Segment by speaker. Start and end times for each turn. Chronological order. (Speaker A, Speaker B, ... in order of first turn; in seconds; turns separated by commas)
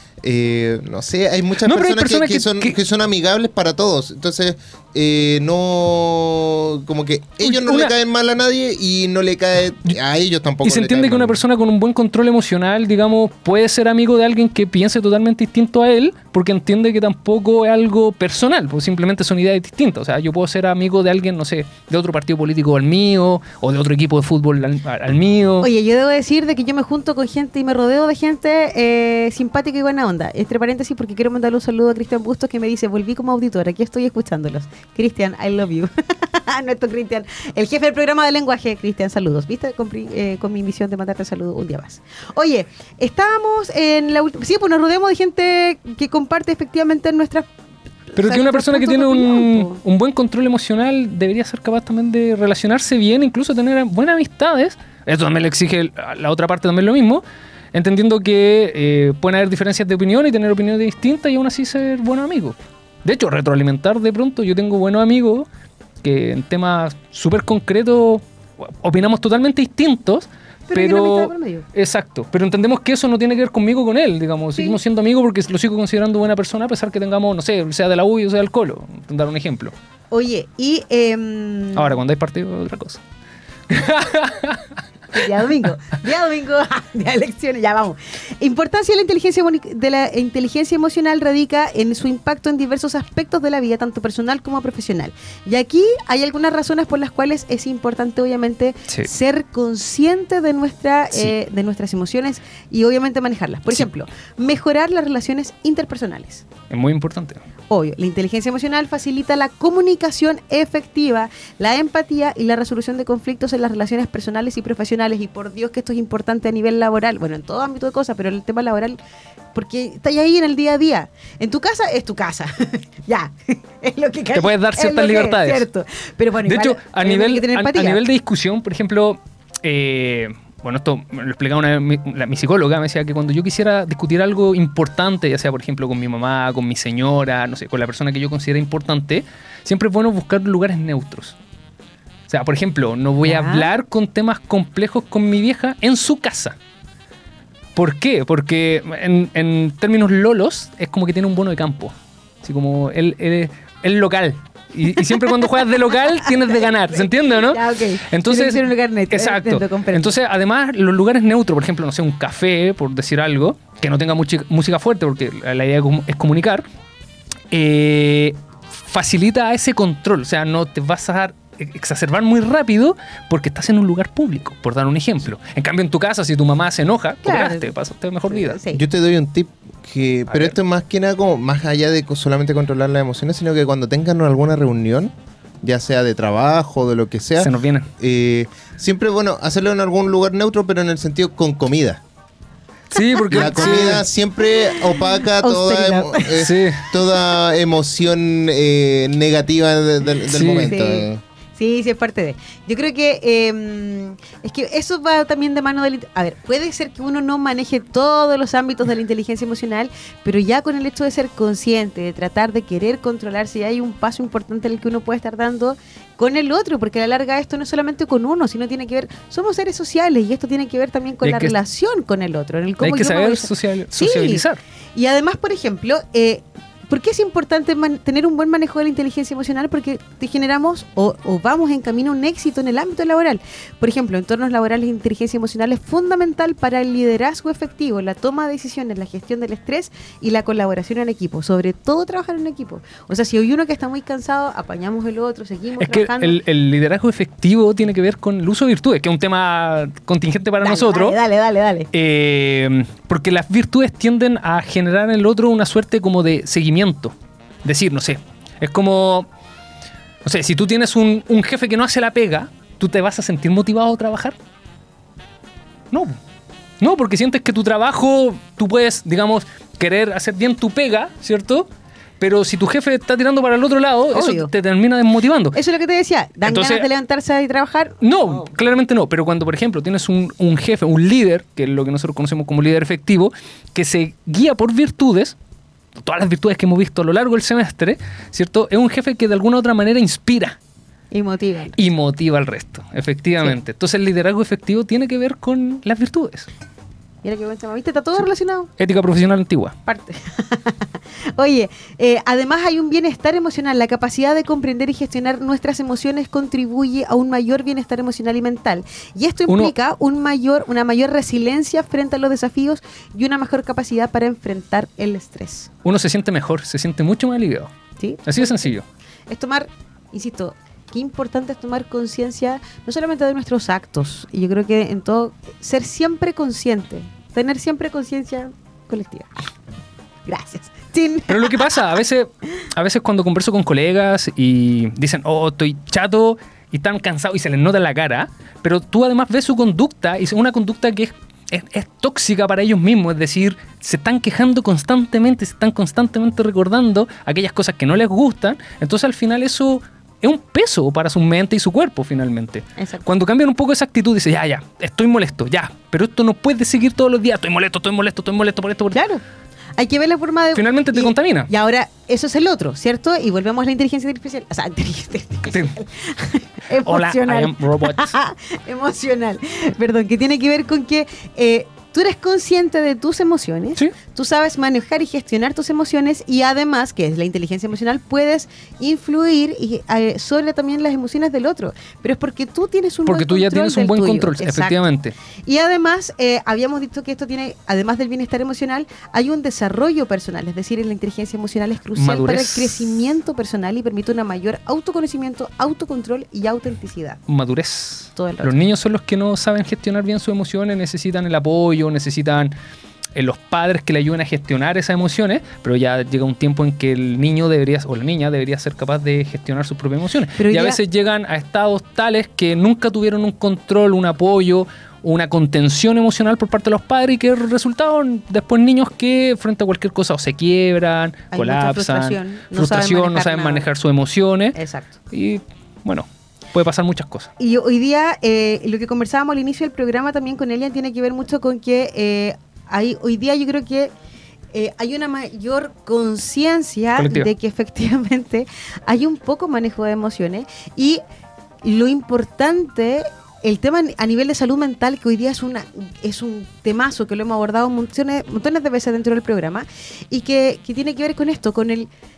Speaker A: 0.2-11.4, Speaker B: 1.6-2.8, Speaker B: 7.4-7.9, Speaker B: 10.6-25.7, Speaker C: 25.6-47.5, Speaker C: 48.1-49.8, Speaker B: 48.2-65.5, Speaker B: 66.0-79.7, Speaker C: 70.7-71.7, Speaker C: 80.1-82.0, Speaker B: 81.8-83.0, Speaker B: 83.7-84.6, Speaker C: 85.1-106.5, Speaker B: 106.7-107.4, Speaker C: 107.7-119.0, Speaker C: 119.5-128.0, Speaker B: 124.3-125.7, Speaker B: 126.5-141.4, Speaker B: 142.3-146.6, Speaker C: 143.2-143.7, Speaker B: 147.8-166.7, Speaker C: 155.0-155.7, Speaker C: 156.2-160.2, Speaker B: 167.5-168.4, Speaker B: 168.9-178.6, Speaker C: 177.2-177.8, Speaker C: 178.3-178.8, Speaker A: 178.7-192.0, Speaker B: 180.3-180.6, Speaker B: 187.4-187.9, Speaker B: 192.9-194.1, Speaker C: 192.9-194.0, Speaker A: 193.3-201.2, Speaker C: 195.0-196.4, Speaker B: 196.4-196.8, Speaker B: 200.3-200.7, Speaker C: 200.7-224.4, Speaker B: 221.2-221.6, Speaker B: 222.8-224.6, Speaker C: 224.9-246.4, Speaker B: 245.8-251.2, Speaker C: 250.6-251.9, Speaker B: 251.9-257.1, Speaker B: 257.6-259.3, Speaker B: 260.2-264.4, Speaker B: 265.9-266.2, Speaker B: 266.8-271.7, Speaker B: 272.2-275.6, Speaker C: 274.1-274.5, Speaker C: 275.5-278.5, Speaker B: 276.4-276.9, Speaker B: 278.0-285.4, Speaker B: 286.0-290.6, Speaker C: 291.1-291.8, Speaker B: 291.8-296.5, Speaker C: 297.2-298.7, Speaker B: 298.8-299.8, Speaker C: 299.9-315.7, Speaker B: 309.5-309.7, Speaker B: 315.9-317.7, Speaker C: 318.0-318.7, Speaker B: 318.3-318.9, Speaker C: 319.3-329.3, Speaker C: 330.3-331.9, Speaker B: 331.3-359.0, Speaker C: 352.8-353.0, Speaker C: 358.9-359.2, Speaker C: 359.8-384.8, Speaker B: 360.6-361.5, Speaker B: 366.8-368.1, Speaker B: 383.1-385.1, Speaker C: 385.5-397.2, Speaker B: 392.0-392.9, Speaker B: 397.3-402.5, Speaker C: 398.2-398.6, Speaker B: 403.1-424.6, Speaker C: 410.4-410.8, Speaker C: 421.3-423.7, Speaker C: 424.6-424.9, Speaker B: 425.1-427.3, Speaker C: 427.4-433.9, Speaker C: 434.5-441.0, Speaker B: 437.0-437.3, Speaker C: 441.6-451.9